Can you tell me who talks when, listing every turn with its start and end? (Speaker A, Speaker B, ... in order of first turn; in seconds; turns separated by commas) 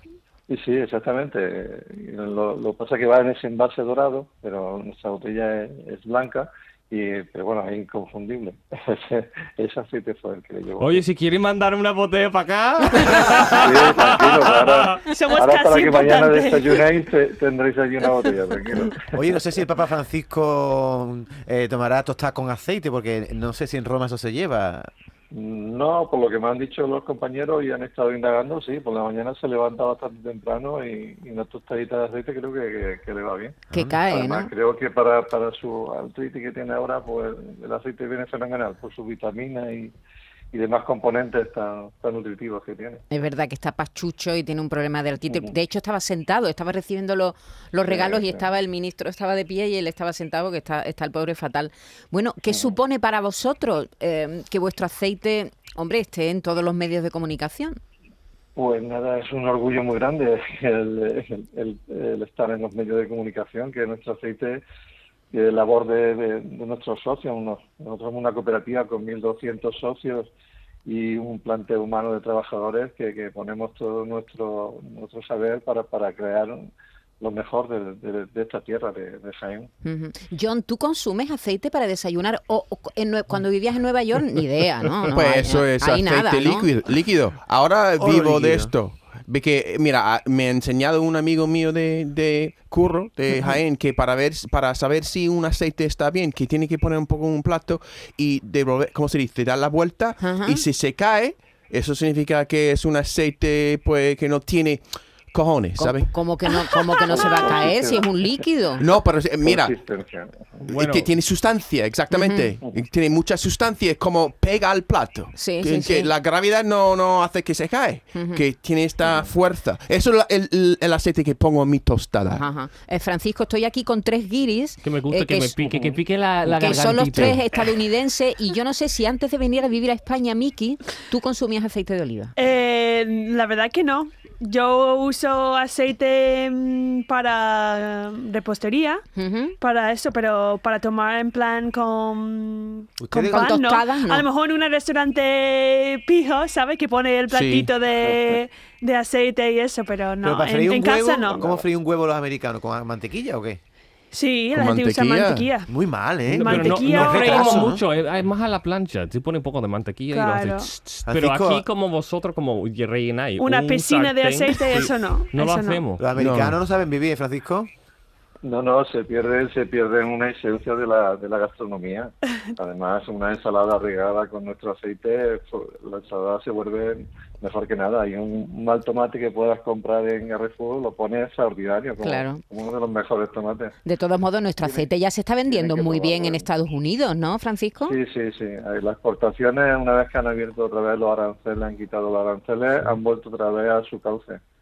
Speaker A: 0.5-11.0, Speaker B: 10.8-15.0, Speaker A: 13.5-19.1, Speaker C: 15.1-16.8, Speaker D: 19.1-24.9, Speaker A: 25.3-39.9, Speaker E: 33.7-34.5, Speaker D: 33.7-34.0, Speaker A: 40.5-43.0, Speaker E: 43.1-57.8, Speaker A: 47.9-48.4, Speaker A: 58.5-64.6, Speaker A: 65.3-70.3, Speaker A: 70.8-79.7, Speaker E: 79.8-86.7, Speaker F: 85.0-106.1, Speaker D: 88.0-88.7, Speaker E: 100.2-100.6, Speaker E: 105.8-108.8, Speaker A: 107.1-108.2, Speaker F: 108.8-109.7, Speaker A: 109.4-110.6, Speaker B: 110.6-111.1, Speaker F: 110.7-122.5, Speaker E: 112.1-112.5, Speaker E: 115.3-116.1, Speaker E: 118.1-118.4, Speaker E: 122.3-132.3, Speaker B: 124.8-127.4, Speaker F: 127.1-127.4, Speaker C: 132.4-139.0, Speaker E: 139.2-139.5, Speaker C: 139.6-151.6, Speaker D: 143.0-143.6, Speaker E: 143.2-144.2, Speaker F: 147.3-147.7, Speaker A: 148.0-148.3, Speaker D: 150.2-153.6, Speaker C: 154.1-155.7, Speaker F: 154.5-155.5, Speaker D: 155.7-157.8, Speaker C: 156.3-157.7, Speaker B: 156.3-166.0, Speaker C: 160.1-160.7, Speaker D: 161.1-161.6, Speaker C: 163.4-165.8, Speaker D: 166.0-167.7, Speaker F: 166.2-166.6, Speaker A: 168.4-183.7, Speaker E: 182.0-182.4, Speaker E: 183.8-187.9, Speaker A: 185.5-186.4, Speaker A: 187.9-194.4